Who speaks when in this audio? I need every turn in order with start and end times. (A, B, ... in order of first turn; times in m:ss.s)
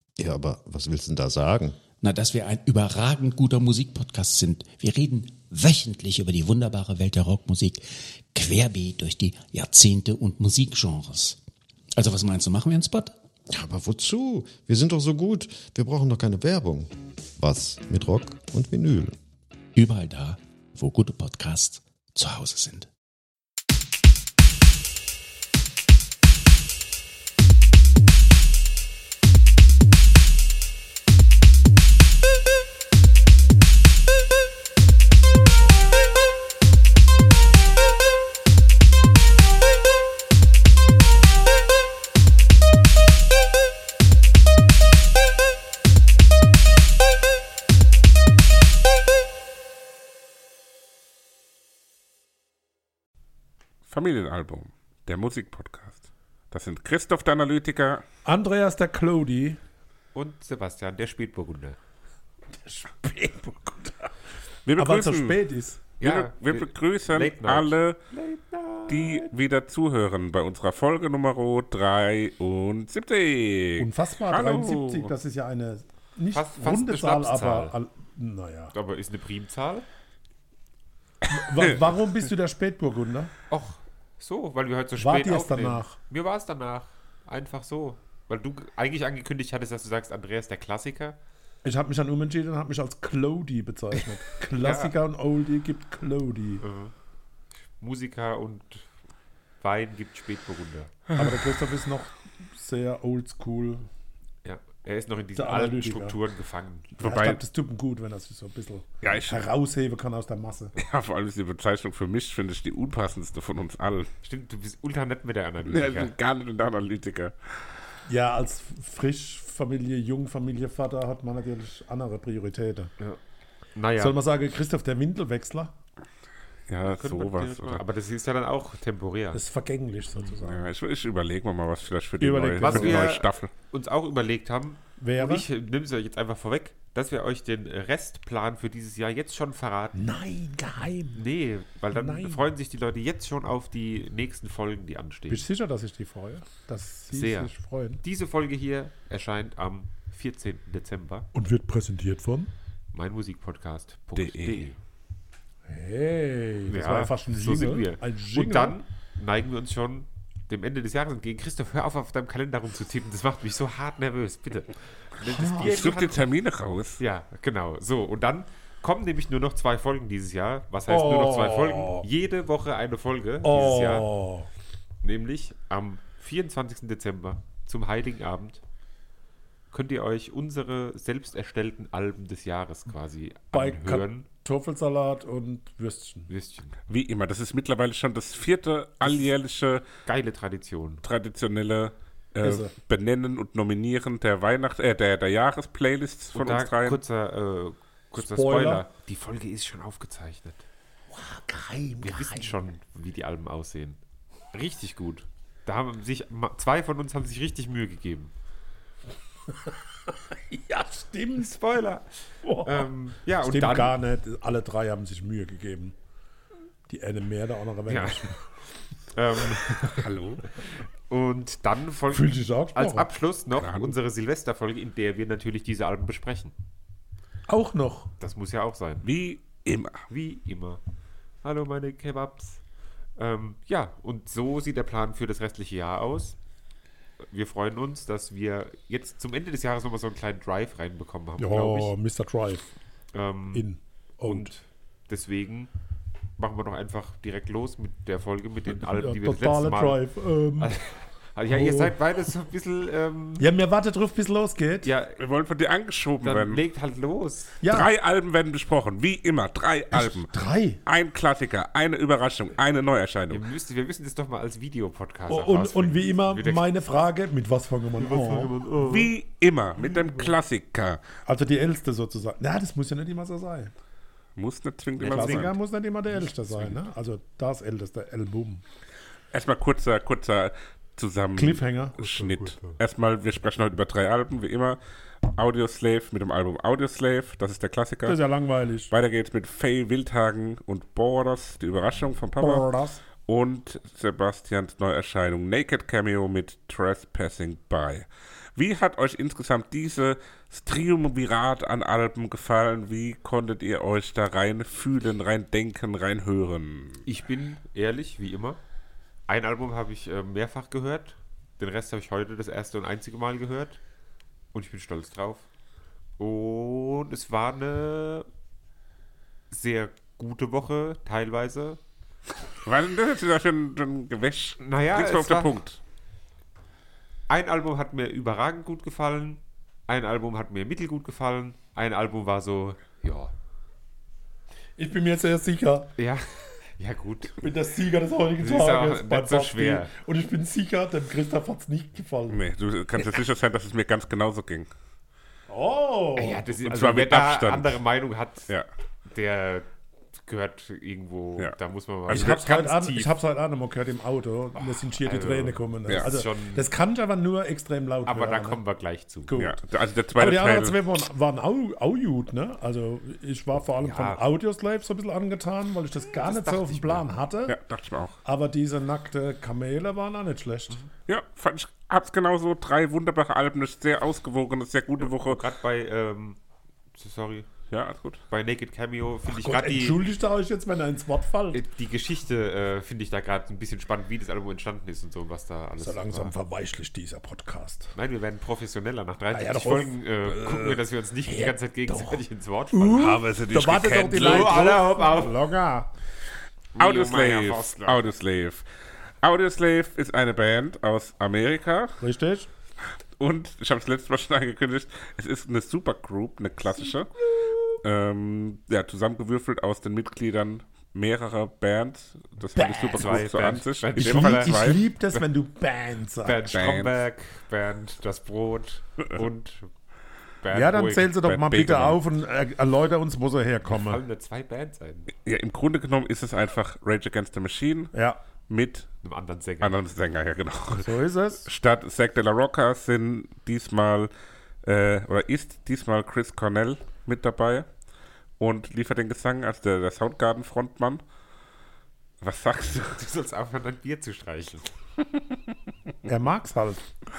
0:00.2-0:01.8 A
0:02.0-0:11.4 B
0:12.0-0:13.1 B
0:13.5-0:19.2 A
0:19.8-0:22.9 B
0:53.9-0:58.0 C
0:58.2-0:59.6 D
1:00.2-1:01.8 E
1:02.6-1:04.1 D
1:04.7-1:05.4 C
1:04.8-1:05.8 D
1:06.0-1:08.0 C
1:06.0-1:09.3 E
1:08.9-1:15.1 C
1:13.8-1:18.8 D
1:16.3-1:17.8 E
1:18.7-1:19.9 E
1:21.3-1:23.3 D
1:23.5-1:31.2 E
1:25.0-1:26.0 D
1:31.6-1:36.6 D
1:34.6-1:34.9 E
1:36.6-1:36.9 E
1:37.8-1:38.9 E
1:39.6-1:40.9 E
1:41.2-1:43.9 D
1:44.4-1:47.0 E
1:45.4-1:46.2 D
1:47.0-1:47.4 C
1:47.0-1:50.8 D
1:49.0-1:49.5 C
1:50.8-1:54.1 C
1:54.2-1:56.1 E
1:55.6-1:57.4 C
1:58.1-2:02.9 D
2:03.8-2:04.2 E
2:04.0-2:05.7 D
2:06.7-2:07.8 C
2:06.8-2:09.4 E
2:09.3-2:10.7 D
2:10.4-2:13.5 C
2:12.2-2:13.1 D
2:12.6-2:20.0 E
2:15.0-2:15.5 D
2:20.0-2:21.3 D
2:21.2-2:25.5 E
2:21.9-2:22.4 D
2:25.3-2:28.0 D
2:27.1-2:31.3 E
2:31.3-2:32.5 D
2:32.9-2:34.8 E
2:34.2-2:34.7 C
2:35.7-2:38.8 D
2:36.7-2:46.2 E
2:45.2-2:46.1 D
2:45.6-2:47.0 C
2:47.0-2:54.1 E
2:50.9-2:52.1 D
2:53.4-2:54.5 D
2:55.0-2:58.6 E
2:59.7-3:04.3 E
3:03.5-3:06.3 D
3:06.3-3:06.8 E
3:06.9-3:09.8 C
3:10.1-3:11.0 E
3:11.0-3:17.0 C
3:12.4-3:12.7 D
3:16.3-3:20.7 E
3:18.2-3:18.8 D
3:21.1-3:22.6 D
3:22.0-3:24.0 E
3:24.5-3:28.3 E
3:29.5-3:31.6 D
3:31.4-3:34.0 E
3:32.4-3:36.0 D
3:36.9-3:38.4 D
3:37.9-3:38.3 E
3:39.1-3:40.0 E
3:39.7-3:40.0 D
3:40.0-3:40.4 C
3:41.1-3:46.5 E
3:42.1-3:43.1 D
3:43.6-3:44.0 C
3:47.5-3:48.1 D
3:48.2-3:49.1 E
3:49.0-3:50.1 C
3:50.1-3:50.8 E
3:51.4-3:52.6 E
3:53.2-3:56.4 E
3:57.2-4:01.9 E
4:01.4-4:02.7 D
4:03.1-4:03.7 E
4:03.5-4:04.5 D
4:04.2-4:05.7 E
4:06.4-4:10.0 E
4:08.7-4:10.8 D
4:10.6-4:13.5 E
4:11.5-4:12.0 D
4:13.4-4:14.9 D
4:14.8-4:15.2 E
4:15.2-4:16.6 C
4:16.2-4:17.6 E
4:17.6-4:17.9 D
4:17.7-4:20.3 C
4:19.9-4:20.8 D
4:20.9-4:23.4 C
4:23.3-4:26.7 E
4:25.3-4:28.5 D
4:28.0-4:29.1 E
4:28.8-4:31.0 C
4:31.3-4:33.7 D
4:34.4-4:35.6 C
4:35.0-4:35.5 E
4:35.0-4:38.6 D
4:39.3-4:48.2 C
4:41.4-4:42.5 D
4:48.0-4:48.9 D
4:48.9-4:52.7 C
4:52.4-4:53.0 D
4:53.2-5:07.0 C
5:07.0-5:08.6 E
5:09.3-5:13.8 E
5:14.5-5:15.5 E
5:16.2-5:18.3 E
5:19.5-5:21.8 E
5:22.6-5:25.8 C
5:24.6-5:25.6 E
5:27.3-5:33.3 E
5:34.8-5:35.9 D
5:36.0-5:37.4 E
5:37.4-5:42.4 D
5:38.4-5:39.9 E
5:42.3-5:44.7 C
5:45.5-5:46.4 D
5:46.2-5:48.5 E
5:46.6-5:47.8 C
5:49.1-5:49.7 E
5:50.3-5:53.1 E
5:52.1-5:58.6 D
5:55.0-5:56.7 E
5:58.1-5:59.3 E
5:59.3-5:59.6 D
5:59.4-6:00.8 C
6:00.2-6:07.6 D
6:03.8-6:04.2 E
6:06.1-6:07.1 E
6:07.5-6:08.2 C
6:08.2-6:10.8 D
6:11.1-6:15.4 C
6:15.0-6:16.4 E
6:17.0-6:17.5 E
6:17.7-6:18.2 C
6:18.3-6:20.0 E
6:19.2-6:21.6 D
6:21.5-6:26.3 E
6:25.8-6:27.9 D
6:27.9-6:33.2 E
6:29.3-6:35.9 D
6:33.0-6:34.8 C
6:34.1-6:35.4 E
6:36.8-6:38.0 E
6:36.8-6:38.6 C
6:39.2-6:42.0 C
6:42.0-6:42.5 D
6:43.2-6:47.1 C
6:47.8-6:54.8 C
6:52.6-6:56.5 D
6:52.9-6:55.2 E
6:56.2-6:59.7 E
6:56.4-6:56.9 C
7:00.4-7:01.1 E
7:00.5-7:04.0 D
7:01.1-7:02.0 C
7:03.7-7:05.1 E
7:05.2-7:07.9 C
7:07.9-7:08.2 D
7:08.5-7:08.9 C
7:09.0-7:09.8 E
7:09.6-7:14.1 C
7:10.7-7:11.4 D
7:14.6-7:17.7 C
7:18.4-7:21.0 C
7:22.2-7:23.0 C
7:22.9-7:24.7 E
7:26.1-7:26.8 D